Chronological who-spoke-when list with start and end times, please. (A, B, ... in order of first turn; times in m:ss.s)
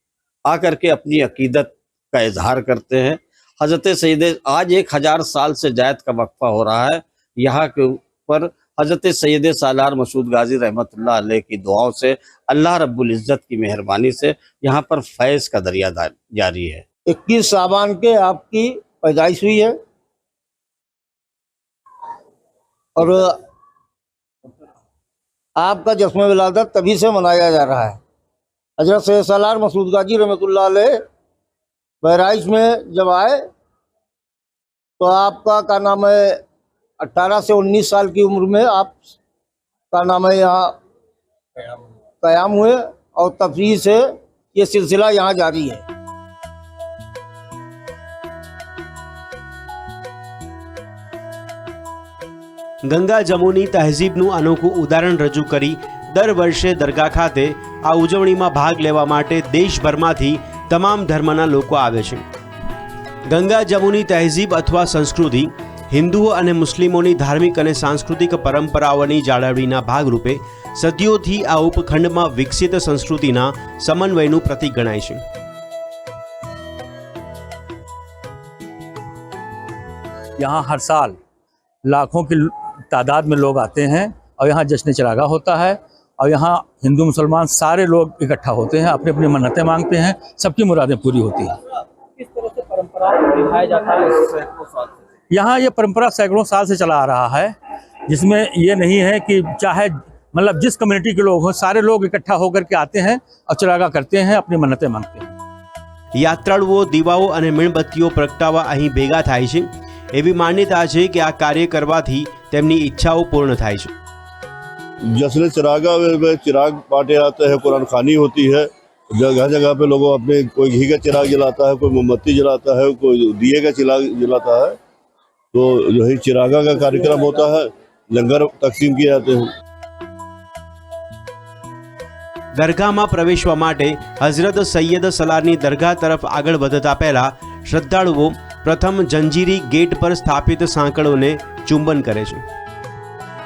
0:00.5-0:16.8 A
0:17.1-0:19.8 B
0:23.0-0:23.4 B
0:25.6-0:28.0 B
0:28.8-0:31.0 B
0:32.0-0:33.4 B
0:35.0-0:36.4 B
0:37.0-0:39.0 B
0:39.9-0:40.8 B
0:42.2-0:45.8 B
0:52.9-1:02.2 C
1:03.3-1:15.2 C
1:20.4-1:21.2 D
1:21.8-1:31.5 D
1:35.3-1:37.5 D
1:38.1-1:45.3 D
1:46.2-1:53.9 C
1:55.2-2:04.8 E
2:05.5-2:09.5 E
2:12.6-2:22.4 C